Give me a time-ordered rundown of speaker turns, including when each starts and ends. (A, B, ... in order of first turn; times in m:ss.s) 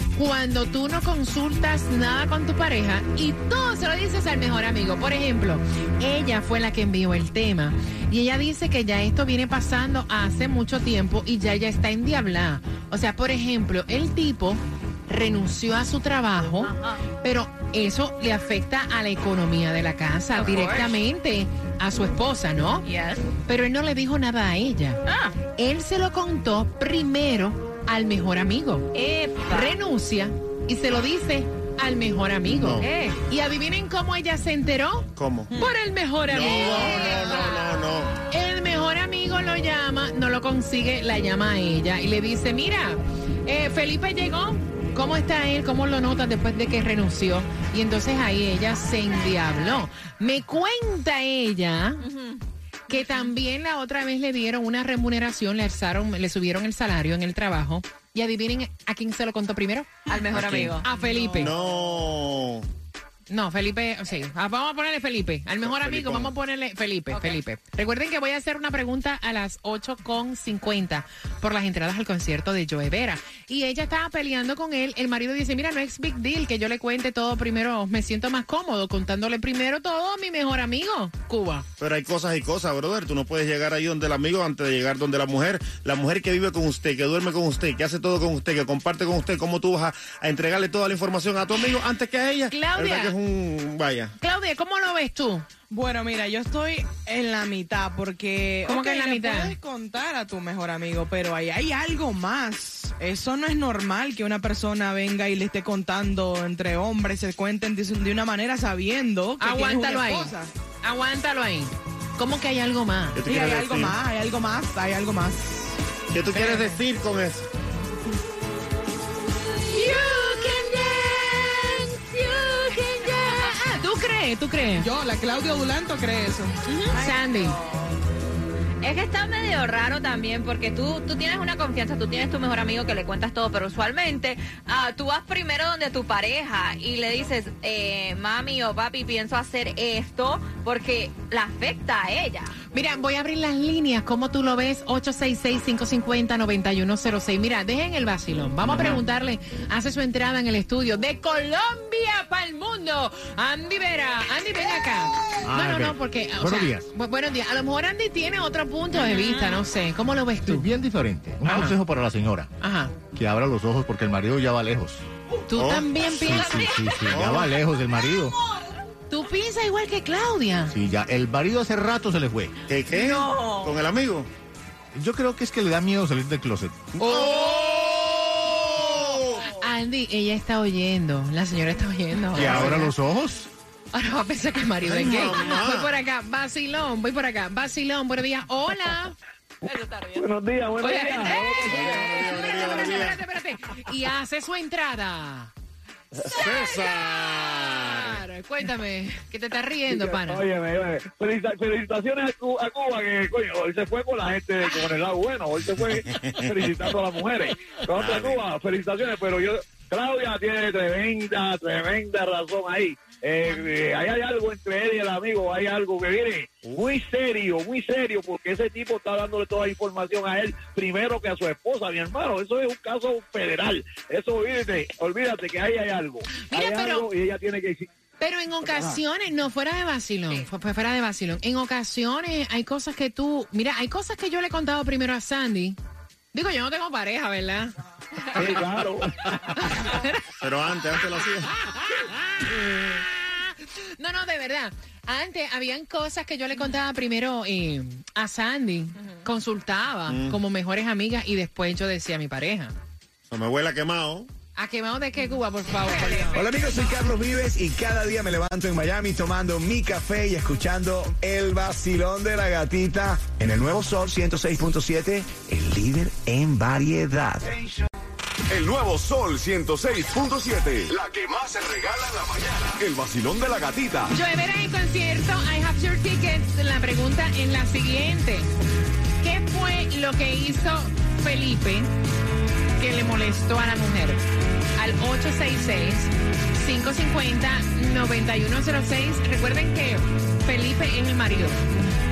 0:00.1-0:22.9 A
0:16.6-0:17.0 B
0:20.3-0:21.0 B
0:22.8-0:23.2 B
0:23.4-0:25.0 A
0:25.0-0:25.4 B
0:25.6-0:28.9 A
0:28.9-0:29.8 B
0:29.4-0:52.0 A
0:32.4-0:32.9 C
0:32.8-0:33.2 B
0:35.2-0:35.5 C
0:36.3-0:38.2 C
0:36.4-0:37.4 B
0:52.0-0:53.3 B
0:52.9-1:01.5 A
1:00.1-1:01.5 B
1:01.3-1:02.7 C
1:03.3-1:21.6 A
1:05.6-1:06.3 C
1:07.1-1:07.4 B
1:21.8-1:34.1 C
1:32.5-1:33.1 A
1:34.2-1:35.4 A
1:35.7-1:50.5 D
1:38.6-1:39.5 A
1:49.4-1:53.2 A
1:53.1-1:54.0 C
1:53.2-1:55.8 D
1:56.1-1:57.5 C
1:56.4-1:56.7 A
1:59.7-2:03.7 B
1:59.7-2:00.6 A
2:03.1-2:04.9 A
2:04.8-2:06.9 D
2:06.9-2:07.8 B
2:06.9-2:07.6 A
2:08.8-2:22.6 B
2:22.7-2:40.7 A
2:35.5-2:35.8 E
2:36.4-2:36.8 E
2:38.9-2:39.6 B
2:40.4-2:42.5 E
2:41.4-2:41.8 A
2:42.6-2:42.9 A
2:43.1-2:45.0 E
2:45.5-2:47.0 A
2:45.5-2:46.6 C
2:46.1-2:48.4 E
2:46.4-2:46.9 B
2:47.1-2:47.5 C
2:49.1-2:50.7 A
2:50.7-2:52.5 E
2:52.7-2:54.3 C
2:52.9-2:53.7 B
2:54.9-2:57.0 E
2:56.9-2:59.5 C
2:57.2-2:57.8 B
2:59.6-3:02.9 A
3:02.3-3:03.5 E
3:02.4-3:02.8 C
3:03.9-3:09.2 A
3:04.8-3:05.9 C
3:09.6-3:10.3 B
3:10.1-3:12.1 F
3:10.8-3:15.5 A
3:11.6-3:13.2 C
3:16.1-3:18.2 C
3:16.3-3:20.4 A
3:19.9-3:47.9 F
3:26.2-3:26.4 C
3:27.9-3:28.4 C
3:46.5-3:47.1 A
3:48.2-3:55.8 A
3:48.7-3:49.0 F
3:56.3-3:57.7 A
3:58.3-3:59.1 F
3:58.4-3:59.1 C
3:59.6-4:00.2 A
4:00.4-4:01.5 C
4:01.7-4:12.7 A
4:10.1-4:10.4 C
4:13.3-4:14.3 C
4:14.6-4:16.5 A
4:15.9-4:16.3 B
4:16.3-4:27.4 G
4:28.5-4:34.1 H
4:34.1-4:38.5 A
4:39.2-4:41.9 A
4:42.8-4:44.2 A
4:44.8-4:51.9 A